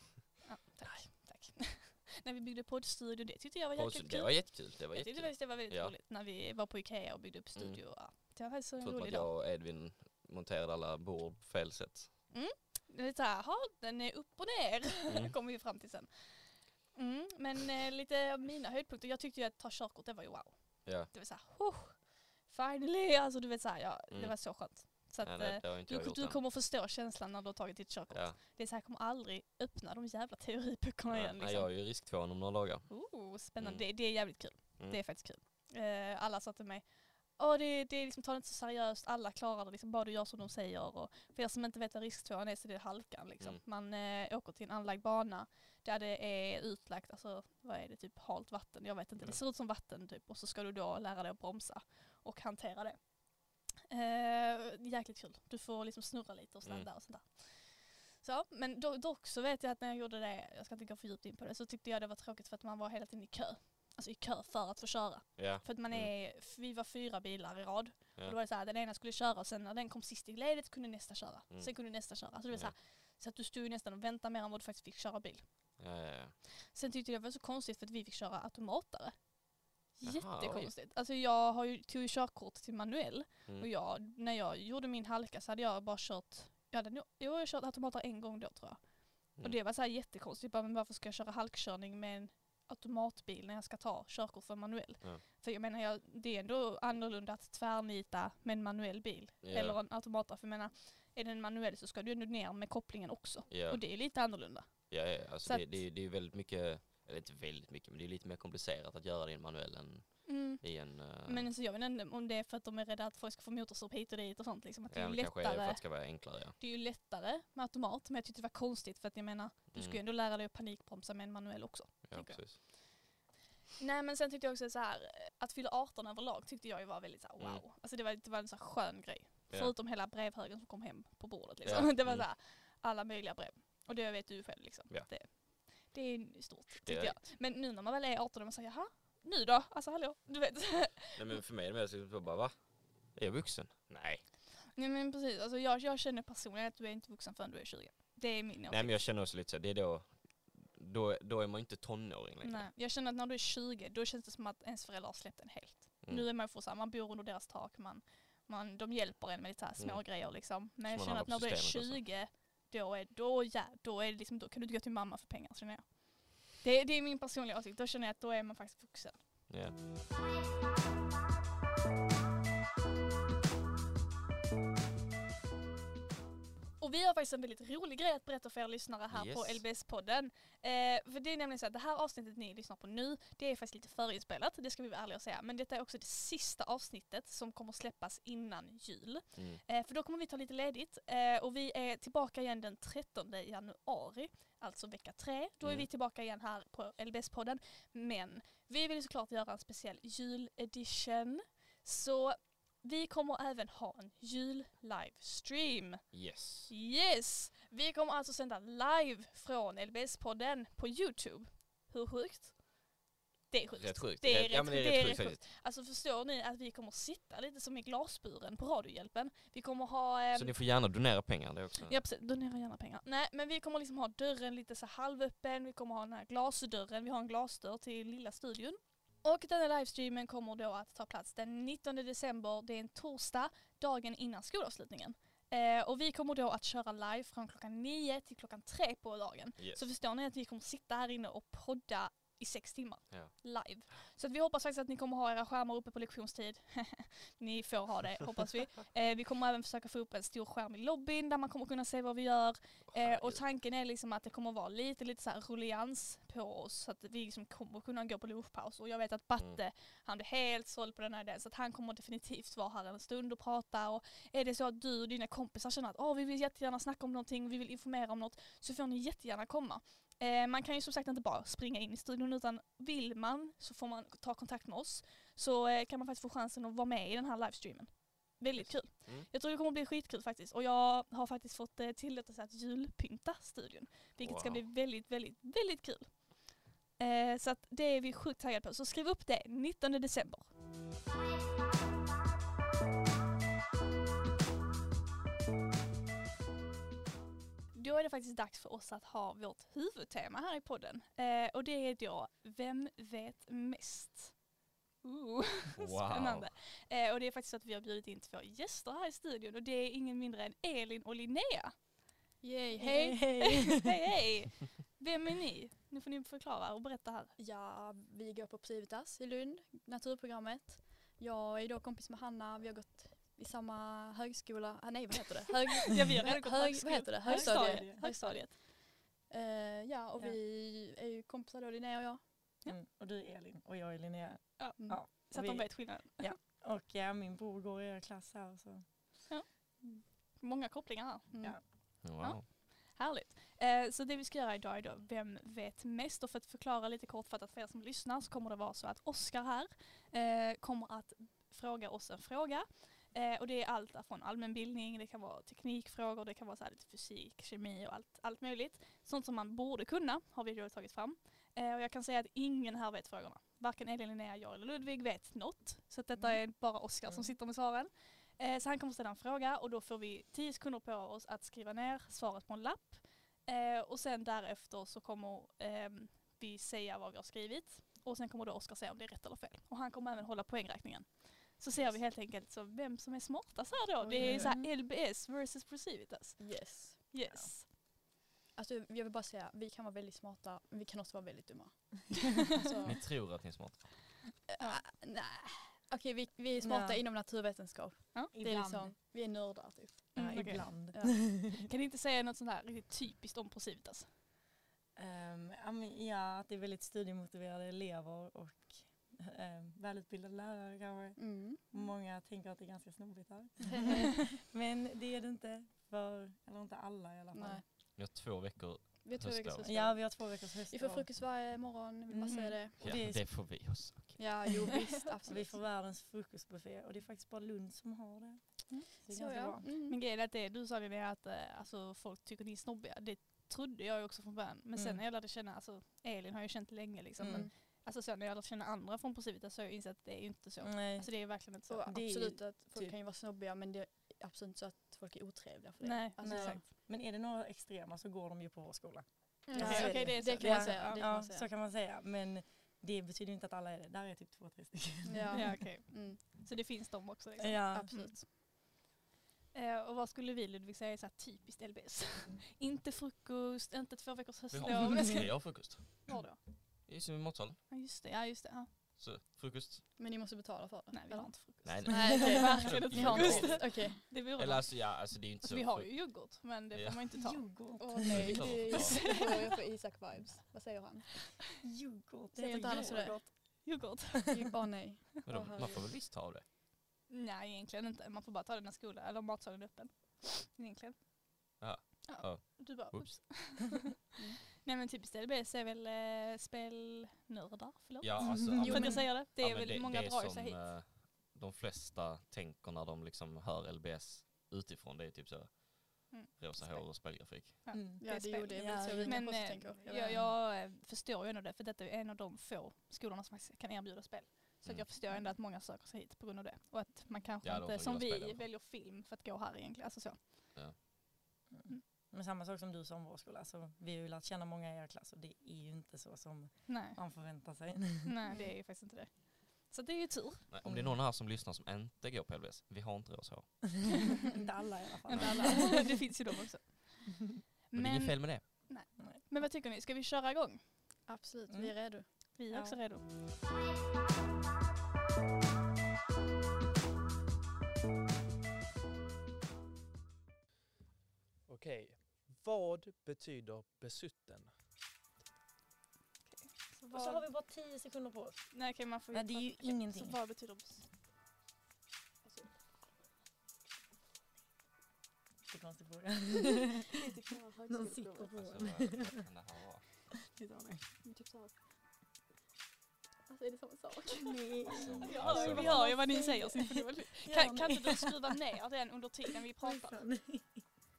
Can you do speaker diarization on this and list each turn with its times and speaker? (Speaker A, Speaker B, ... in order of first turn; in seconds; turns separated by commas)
Speaker A: 0.4-9.3, Speaker B: 3.8-5.9, Speaker B: 8.8-12.2, Speaker A: 12.3-31.7, Speaker B: 15.1-15.3, Speaker B: 20.8-21.1, Speaker B: 24.1-26.4, Speaker B: 28.1-28.4, Speaker B: 31.1-32.9, Speaker A: 32.9-53.2, Speaker B: 33.6-34.1, Speaker A: 53.9-75.8, Speaker B: 65.4-66.1, Speaker B: 71.5-72.7, Speaker B: 75.8-76.3, Speaker A: 76.6-79.2, Speaker A: 79.9-105.8, Speaker B: 80.0-80.7, Speaker B: 99.4-99.8, Speaker B: 103.5-111.5, Speaker A: 110.2-122.8, Speaker B: 114.9-116.6, Speaker B: 119.7-120.0, Speaker B: 122.0-122.6, Speaker A: 123.8-141.4, Speaker B: 131.6-132.3, Speaker B: 136.8-137.2, Speaker B: 141.1-142.6, Speaker B: 143.1-144.2, Speaker A: 144.7-149.0, Speaker B: 148.7-152.7, Speaker A: 152.4-169.3, Speaker B: 159.8-162.1, Speaker B: 169.5-169.8, Speaker A: 176.8-206.1, Speaker B: 179.1-179.6, Speaker B: 189.3-189.6, Speaker B: 195.6-195.9, Speaker B: 206.1-206.7, Speaker A: 206.7-212.6, Speaker A: 213.5-220.6, Speaker B: 213.8-215.4, Speaker B: 220.3-222.0, Speaker A: 221.8-290.5, Speaker B: 239.6-239.8, Speaker B: 252.9-253.4, Speaker B: 278.6-279.3, Speaker B: 284.2-284.6, Speaker A: 297.7-304.4, Speaker A: 305.0-311.9, Speaker B: 305.7-306.5, Speaker C: 312.4-313.4, Speaker D: 312.8-313.8, Speaker A: 312.8-317.3, Speaker C: 317.4-332.6, Speaker A: 325.8-328.5, Speaker D: 327.2-328.1, Speaker D: 332.6-338.9, Speaker A: 334.6-336.3, Speaker A: 340.4-387.7, Speaker B: 342.0-342.5, Speaker C: 384.0-384.5, Speaker D: 384.1-384.7, Speaker C: 386.4-387.1, Speaker C: 388.5-393.0, Speaker B: 392.8-394.2, Speaker C: 394.5-401.1, Speaker D: 396.6-397.0, Speaker D: 398.3-398.9, Speaker A: 400.1-404.1, Speaker D: 400.2-401.6, Speaker D: 404.9-417.6, Speaker C: 411.2-411.6, Speaker C: 413.6-414.4, Speaker C: 417.3-417.6, Speaker B: 418.0-419.7, Speaker C: 419.0-423.0, Speaker D: 419.6-421.1, Speaker D: 422.1-423.5, Speaker A: 422.3-422.5, Speaker B: 422.8-424.4, Speaker C: 424.2-425.6, Speaker D: 425.2-429.7, Speaker C: 428.7-430.0, Speaker A: 429.9-441.8, Speaker D: 434.8-435.0, Speaker D: 437.2-437.5, Speaker C: 437.2-437.5, Speaker D: 440.6-441.1, Speaker C: 441.7-446.6, Speaker D: 441.9-443.0, Speaker A: 445.8-446.6, Speaker D: 446.2-455.6, Speaker C: 449.5-451.5, Speaker A: 449.5-451.1, Speaker C: 455.1-456.2, Speaker A: 455.3-458.1, Speaker D: 457.4-458.1, Speaker C: 457.7-458.3, Speaker A: 459.5-466.4, Speaker B: 464.5-466.2, Speaker B: 466.9-467.6, Speaker A: 467.7-468.7, Speaker B: 469.0-469.8, Speaker C: 470.0-474.0, Speaker A: 470.9-474.9, Speaker B: 471.6-476.1, Speaker D: 471.9-473.3, Speaker A: 475.4-477.4, Speaker B: 476.7-477.0, Speaker D: 477.1-478.6, Speaker C: 477.8-481.3, Speaker B: 478.0-479.3, Speaker A: 478.7-479.6, Speaker D: 481.6-483.3, Speaker C: 482.3-483.3, Speaker A: 482.7-484.3, Speaker C: 484.3-485.8, Speaker B: 485.2-486.4, Speaker A: 487.1-491.0, Speaker B: 491.6-493.3, Speaker A: 492.0-500.6, Speaker B: 498.0-507.6, Speaker D: 498.4-499.1, Speaker C: 498.6-498.9, Speaker A: 506.1-507.0, Speaker A: 507.6-520.5, Speaker D: 507.7-510.3, Speaker C: 508.0-510.2, Speaker B: 517.4-518.4, Speaker D: 521.6-528.1, Speaker A: 526.7-527.0, Speaker A: 528.0-530.4, Speaker B: 530.5-534.0, Speaker D: 530.6-531.0, Speaker D: 534.2-536.1, Speaker A: 535.0-540.7, Speaker B: 535.1-535.5, Speaker B: 537.7-538.5, Speaker C: 541.1-542.1, Speaker D: 541.5-542.8, Speaker A: 542.3-543.0, Speaker E: 551.5-554.5, Speaker A: 556.2-557.3, Speaker D: 556.9-558.5, Speaker A: 558.5-560.9, Speaker D: 559.1-560.2, Speaker C: 562.2-562.5, Speaker D: 565.5-567.1, Speaker C: 566.9-568.3, Speaker D: 567.7-569.3, Speaker B: 568.3-569.8, Speaker D: 570.1-570.9, Speaker C: 571.0-571.5, Speaker C: 573.3-576.7, Speaker D: 574.1-576.3, Speaker B: 574.6-575.9, Speaker A: 575.0-580.0, Speaker D: 577.2-578.4, Speaker D: 579.6-580.6